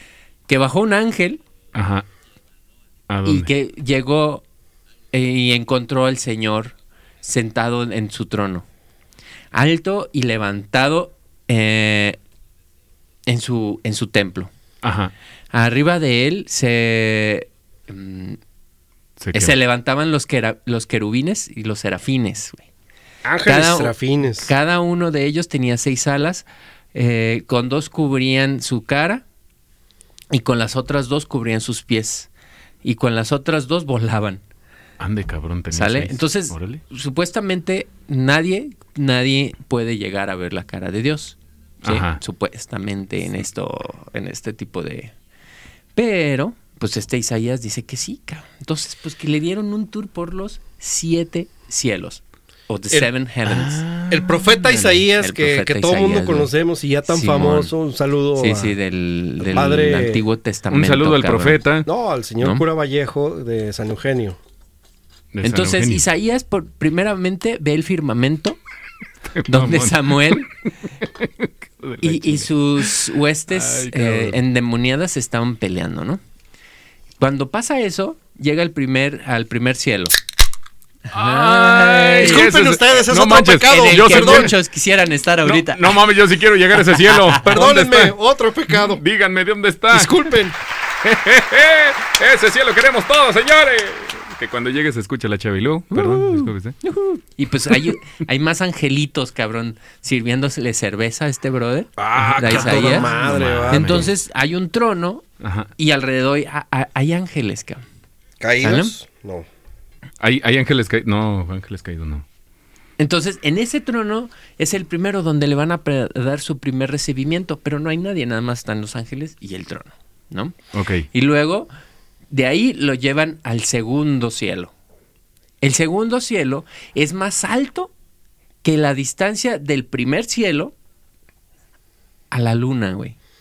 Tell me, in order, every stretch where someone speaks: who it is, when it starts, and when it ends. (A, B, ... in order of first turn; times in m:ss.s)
0:00.5-0:01.4 A
0:01.8-0:02.0 B
0:03.1-0:03.5 B
0:03.2-0:04.4 A
0:05.1-0:08.6 A
0:09.5-0:12.2 A
0:13.3-0:14.5 A
0:14.8-0:15.1 B
0:15.5-0:18.4 A
0:19.2-0:19.5 B
0:19.3-0:22.7 A
0:23.2-0:24.5 C
0:23.4-0:29.2 A
0:30.3-0:32.3 A
0:32.8-0:34.4 A
0:35.0-0:36.8 B
0:35.7-0:45.1 A
0:41.8-0:42.2 B
0:46.0-0:53.8 A
0:53.5-0:54.5 B
0:54.1-0:58.7 C
0:54.7-0:56.5 A
0:57.1-0:57.7 A
0:58.4-1:01.6 A
0:59.4-1:00.2 C
1:00.7-1:01.9 B
1:01.9-1:04.4 C
1:05.3-1:06.0 B
1:05.4-1:08.6 A
1:09.4-1:10.4 B
1:09.5-1:10.5 A
1:11.0-1:12.9 B
1:12.0-1:16.2 A
1:13.5-1:14.4 B
1:17.2-1:20.2 A
1:21.1-1:22.5 A
1:21.1-1:24.5 B
1:22.2-1:24.5 C
1:23.7-1:26.0 A
1:25.4-1:28.2 B
1:26.9-1:27.7 A
1:27.4-1:29.0 C
1:28.7-1:30.3 B
1:29.9-1:30.6 C
1:31.0-1:36.8 B
1:36.0-1:36.5 C
1:36.8-1:43.1 A
1:42.0-1:44.1 C
1:42.2-1:44.1 B
1:43.7-1:45.2 A
1:45.4-1:45.7 B
1:45.8-1:47.8 A
1:48.4-1:49.5 C
1:48.6-1:48.9 A
1:50.2-1:52.2 B
1:53.0-2:00.6 A
2:00.7-2:01.1 B
2:01.1-2:01.7 A
2:02.3-2:04.7 A
2:05.6-2:07.9 A
2:08.6-2:10.7 A
2:12.3-2:13.2 A